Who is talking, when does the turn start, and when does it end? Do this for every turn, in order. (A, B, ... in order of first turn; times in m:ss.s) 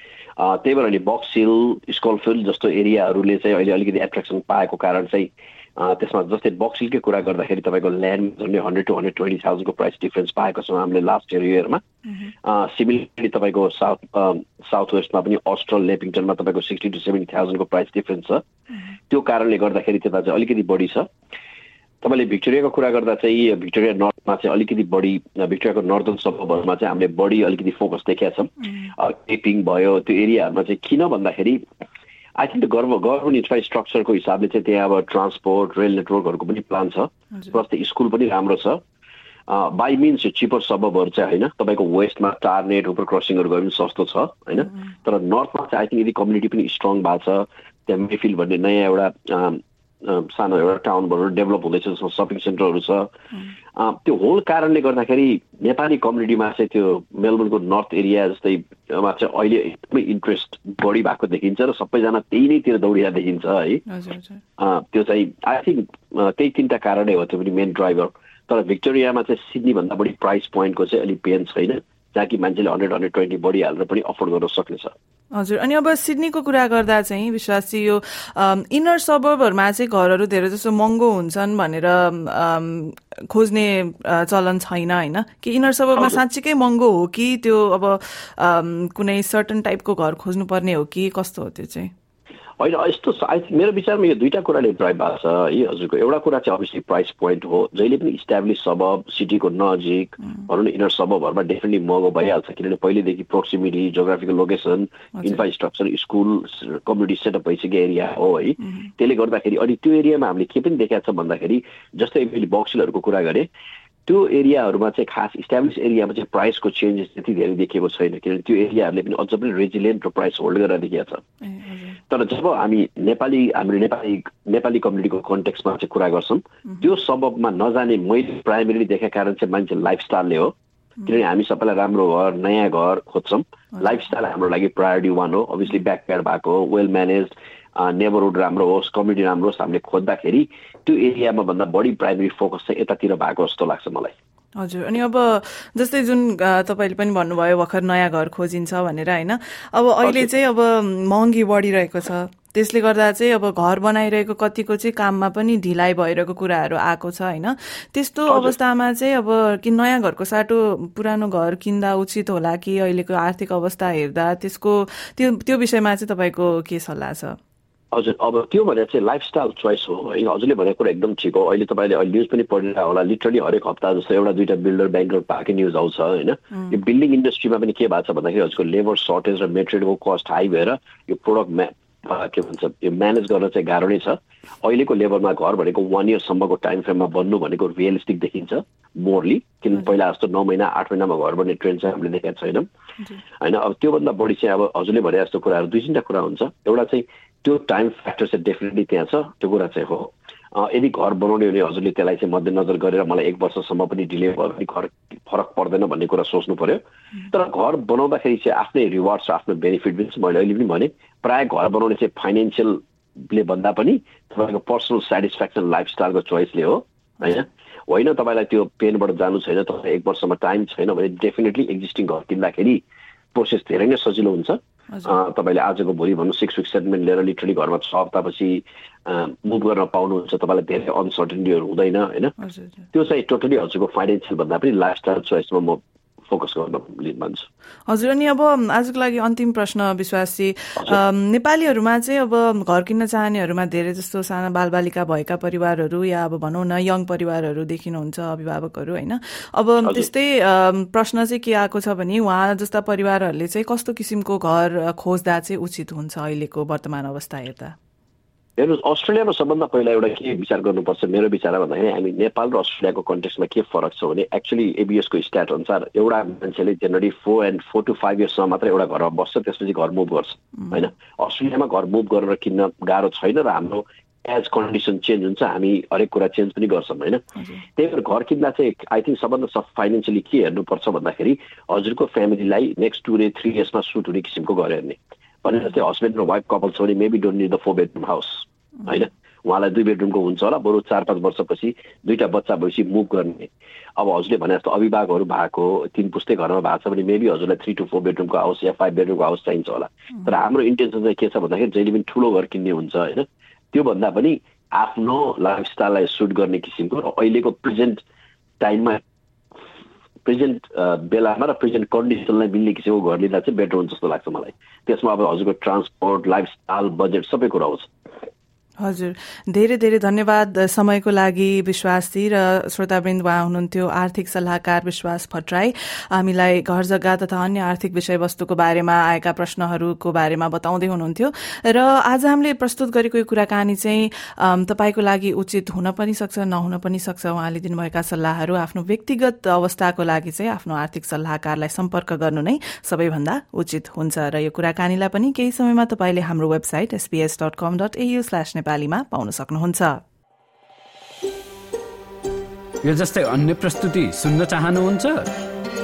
0:00.4-0:11.8 A
0:12.4-0:18.4 A
0:19.1-0:21.1 A
0:22.0-0:31.6 A
0:32.4-0:38.8 A
0:39.5-0:53.1 A
0:53.7-1:03.8 A
1:03.9-1:04.4 B
1:04.6-1:14.9 A
1:15.4-1:31.9 B
1:25.9-1:26.2 A
1:32.6-1:53.5 A
1:54.0-2:01.2 A
2:01.4-2:02.0 B
2:02.1-2:10.5 A
2:11.0-2:24.1 A
2:24.6-2:47.4 B
2:30.0-2:30.3 A
2:38.3-2:38.5 A
2:47.9-3:12.7 A
3:13.4-3:52.3 A
3:52.4-3:52.9 B
3:52.9-3:57.5 A
3:57.9-4:17.7 B
4:18.6-4:37.2 A
4:37.8-5:08.0 A
5:08.6-5:09.0 A
5:10.2-5:17.9 A
5:18.8-5:50.0 B
5:52.8-5:55.3 C